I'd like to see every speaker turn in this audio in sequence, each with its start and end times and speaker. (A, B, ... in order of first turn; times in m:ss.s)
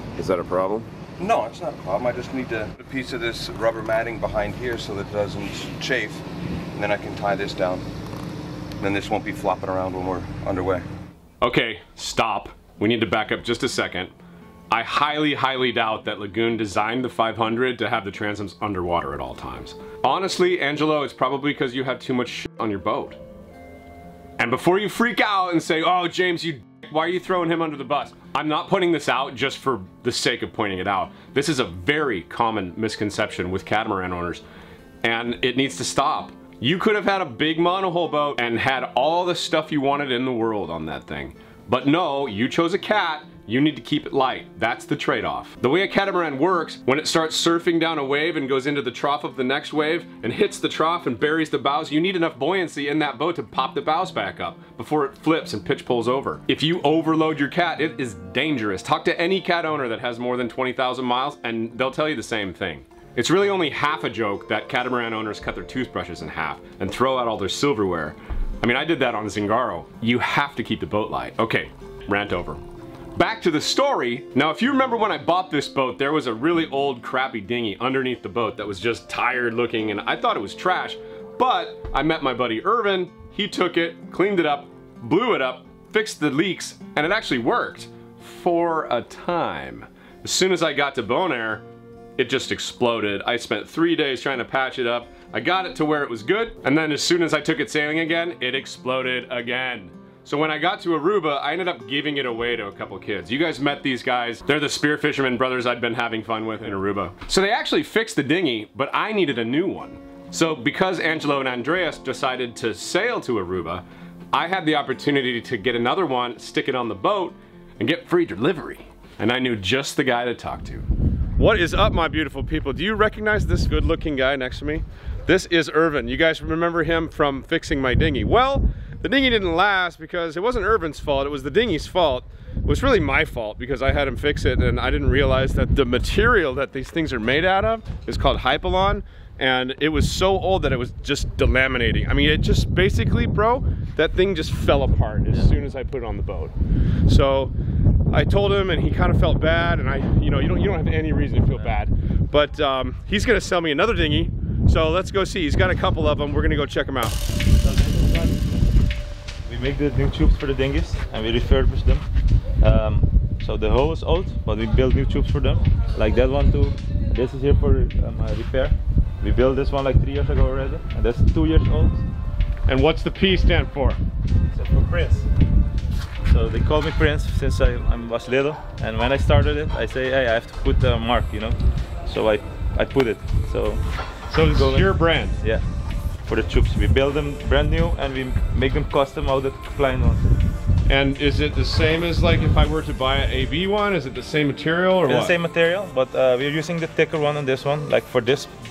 0:00.2-0:00.9 A
0:01.2-0:06.2 B
0:06.8-0:07.9 B
0:08.8-0:10.9 B
0:11.4-0:14.1 A
0:14.7-0:23.2 A
0:24.4-0:34.4 A
0:35.0-1:12.6 A
1:13.2-1:31.6 A
1:32.2-2:26.5 A
2:27.1-2:27.5 A
2:28.1-2:37.2 A
2:37.6-2:38.4 C
2:39.5-2:42.0 C
2:42.6-2:52.0 C
2:52.7-2:54.0 A
2:54.5-2:55.3 C
2:56.3-3:03.8 C
3:04.3-3:05.4 A
3:04.4-3:05.6 C
3:06.3-3:10.3 C
3:10.9-3:15.4 A
3:15.1-3:18.5 C